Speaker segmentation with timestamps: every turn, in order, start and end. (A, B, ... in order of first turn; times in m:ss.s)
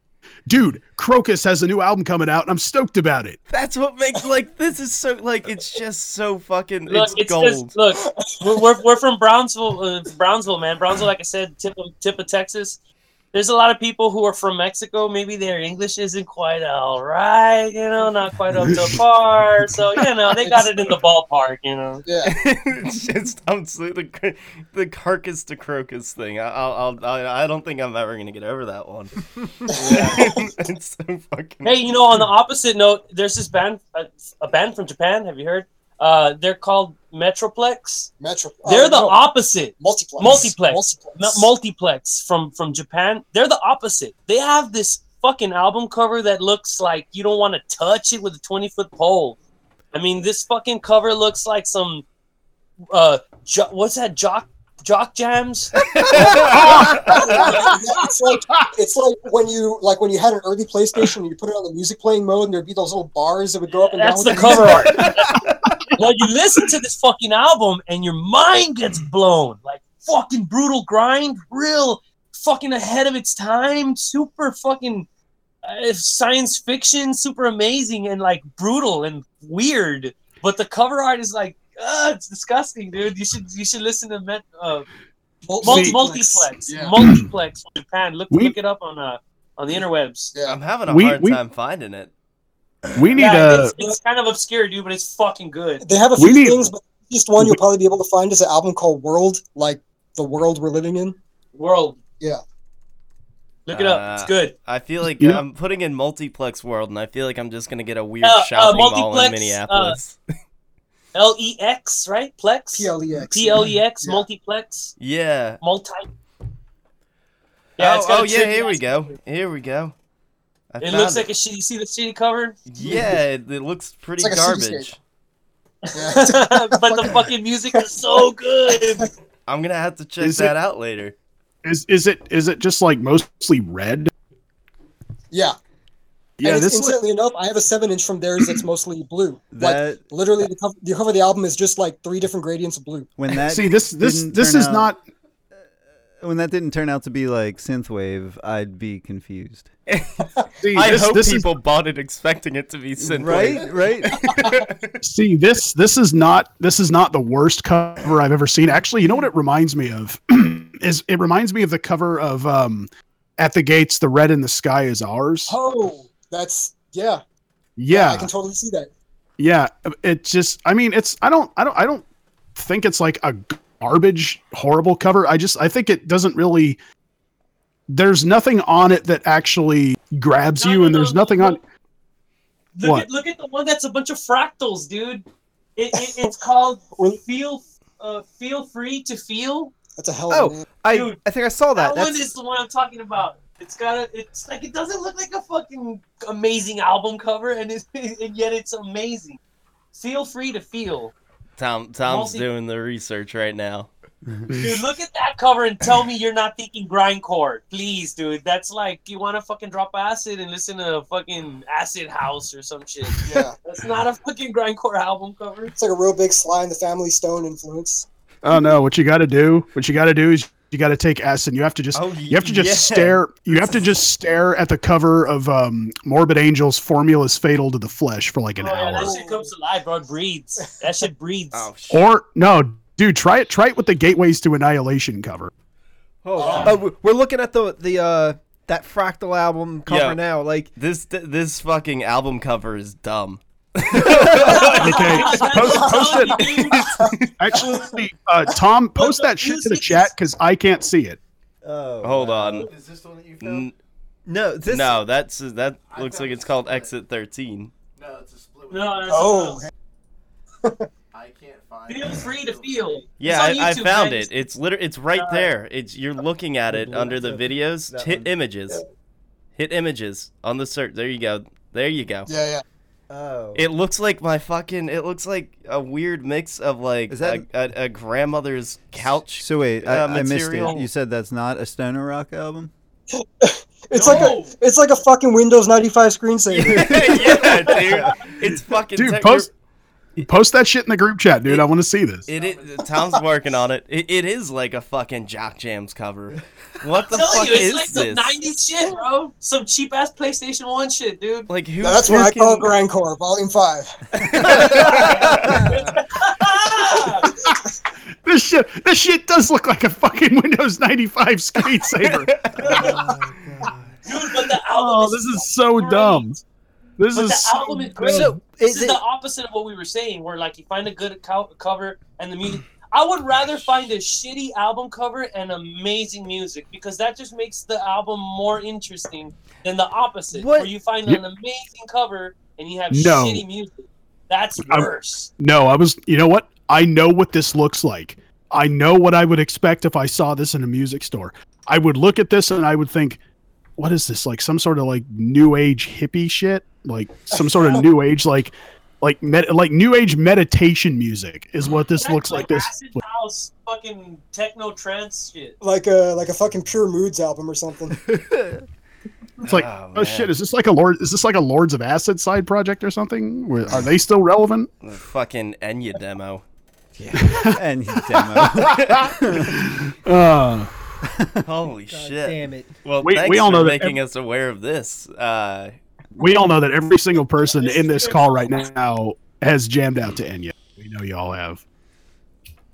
0:00.5-0:03.4 A
0:03.5-0:07.7 B
0:06.9-0:12.8 C
0:08.0-0:08.6 D
0:13.3-0:22.0 C
0:20.4-0:20.9 D
0:22.0-0:22.3 D
0:22.2-0:29.1 B
0:29.7-0:30.4 D
0:29.8-0:31.8 B
0:31.6-0:38.1 C
0:38.2-0:39.2 D
0:38.6-0:49.4 C
0:39.8-0:41.5 D
0:49.9-0:52.0 C
0:52.9-0:55.8 C
0:56.0-0:56.9 B
0:56.2-0:57.1 A
0:56.3-0:56.6 C
0:57.0-1:05.1 D
0:57.3-0:58.0 C
1:03.8-1:05.4 C
1:04.5-1:04.7 A
1:06.0-1:15.1 C
1:15.6-1:24.9 C
1:25.4-1:27.0 D
1:25.6-1:30.3 C
1:25.6-1:25.9 A
1:27.0-1:27.3 A
1:30.3-1:30.6 D
1:30.4-1:32.1 B
1:30.9-1:31.4 A
1:32.9-1:33.8 A
1:33.1-1:35.8 C
1:33.5-1:33.9 D
1:35.8-1:41.2 D
1:36.2-1:36.7 A
1:41.5-1:42.0 C
1:43.6-1:44.5 C
1:43.7-1:50.2 B
1:45.2-1:45.4 A
1:48.2-1:50.0 C
1:51.1-1:54.9 C
1:52.7-1:54.2 D
1:55.0-1:55.6 B
1:55.6-1:56.1 C
1:57.8-1:58.8 C
1:57.8-1:59.9 B
2:00.7-2:01.3 B
2:00.8-2:02.6 C
2:02.7-2:05.0 B
2:02.8-2:03.2 D
2:04.2-2:04.9 D
2:05.8-2:09.1 C
2:05.9-2:07.9 D
2:09.5-2:11.1 B
2:10.2-2:10.5 A
2:11.6-2:14.1 A
2:15.3-2:15.6 D
2:16.4-2:17.0 A
2:16.4-2:23.1 D
2:19.5-2:20.0 E
2:23.2-2:24.9 E
2:23.5-2:25.0 A
2:26.2-2:29.7 E
2:29.9-2:34.9 B
2:30.6-2:31.5 A
2:33.0-2:34.2 E
2:35.0-2:45.6 A
2:45.5-2:47.2 D
2:47.8-2:48.3 A
2:47.9-2:48.9 D
2:49.4-2:52.0 A
2:52.5-2:56.8 A
2:57.9-3:01.6 A
3:00.6-3:01.6 C
3:02.7-3:09.7 C
3:05.9-3:06.3 D
3:10.0-3:10.7 D
3:10.3-3:12.3 F
3:10.9-3:11.2 C
3:11.7-3:19.4 C
3:19.9-3:21.1 C
3:21.6-3:23.9 B
3:22.0-3:22.4 C
3:24.5-3:35.7 C
3:33.2-3:33.6 D
3:35.8-3:38.0 D
3:38.4-3:49.1 A
3:41.9-3:43.7 B
3:48.6-3:51.7 C
3:49.0-3:49.5 D
3:51.5-3:52.0 B
3:51.9-3:55.5 A
3:56.2-3:56.8 G
3:56.4-3:56.7 D
3:56.6-4:00.7 F
3:59.8-4:00.2 B
4:00.7-4:05.1 B
4:04.3-4:07.3 C
4:04.5-4:06.6 A
4:06.7-4:07.1 B
4:07.4-4:11.2 A
4:08.9-4:10.1 C
4:11.6-4:12.7 E
4:12.0-4:12.7 B
4:12.5-4:13.7 G
4:13.4-4:13.7 B
4:14.2-4:15.0 F
4:14.7-4:17.7 B
4:15.9-4:16.9 G
4:18.0-4:19.4 G
4:18.7-4:19.6 C
4:19.1-4:19.7 D
4:21.1-4:23.1 G
4:21.9-4:24.3 C
4:23.2-4:28.8 B
4:25.1-4:25.5 C
4:26.8-4:27.3 F
4:27.9-4:28.2 G
4:29.6-4:32.3 B
4:32.3-4:32.6 D
4:33.1-4:33.6 F
4:33.5-4:40.8 B
4:37.1-4:37.4 E
4:39.4-4:42.7 E
4:43.2-4:47.7 D
4:43.9-4:44.5 G
4:46.5-4:49.5 B
4:49.0-4:49.5 A
4:50.2-4:52.2 A
4:52.3-4:58.4 B
4:52.3-4:52.8 G
4:57.1-5:01.5 C
5:01.5-5:02.7 B
5:01.8-5:04.0 D
5:04.2-5:05.6 B
5:04.6-5:07.3 C
5:08.2-5:12.7 A
5:12.4-5:13.0 C
5:14.0-5:16.4 C
5:14.6-5:16.4 A
5:17.0-5:18.3 A
5:17.1-5:35.3 C
5:18.0-5:19.0 F
5:30.4-5:30.7 F
5:32.9-5:33.4 A
5:34.6-5:43.2 A
5:43.8-5:53.0 A
5:47.3-5:47.8 D
5:52.0-5:55.6 C
5:55.6-5:58.0 D
5:59.4-6:04.7 A
5:59.4-6:00.3 B
6:04.8-6:06.4 B
6:07.0-6:09.6 E
6:07.2-6:07.6 A
6:08.3-6:10.7 A
6:11.0-6:11.3 E
6:11.4-6:15.8 B
6:11.9-6:12.7 F
6:13.0-6:14.0 A
6:16.2-6:21.6 A
6:17.4-6:18.7 C